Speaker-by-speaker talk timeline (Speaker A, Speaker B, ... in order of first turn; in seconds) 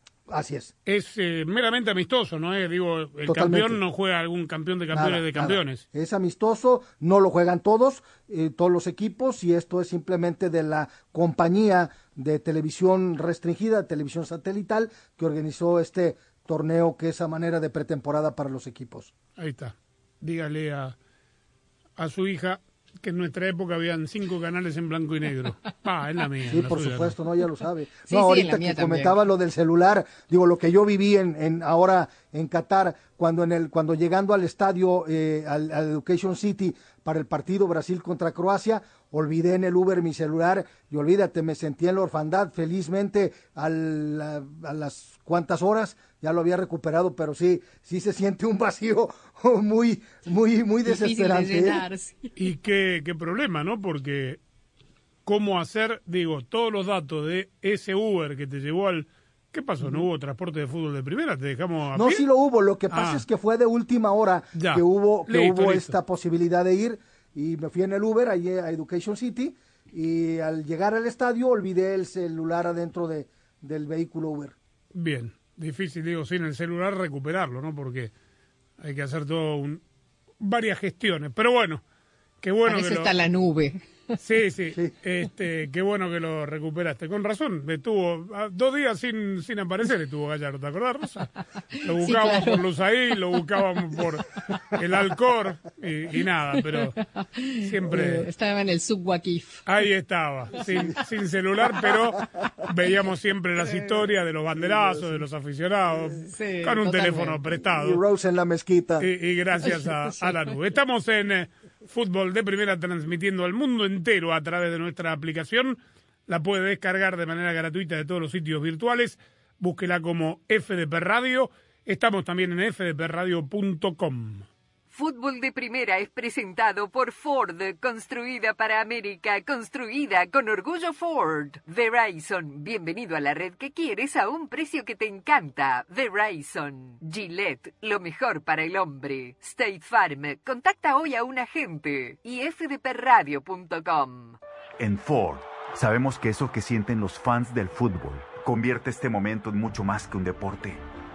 Speaker A: 0.3-0.7, 3.3-3.8, 4.9-19.1, 26.5-51.8, 62.0-74.5, 104.7-105.2, 107.5-109.1
Speaker B: 0.9-5.8, 19.4-21.0, 22.0-27.2, 52.4-54.4, 55.3-62.2, 62.9-63.2, 64.6-66.0, 74.9-78.1, 78.8-79.8, 80.4-81.8, 82.4-83.1, 84.2-91.3, 91.8-97.0, 97.6-98.3, 99.7-108.0, 109.0-124.5
Speaker C: 28.1-29.2, 50.9-52.3, 82.7-84.2, 91.8-94.2, 96.5-99.6, 100.5-101.0, 101.7-102.0, 103.6-103.9, 106.1-107.4, 109.6-110.5
Speaker D: 124.9-144.4
Speaker E: 144.8-150.8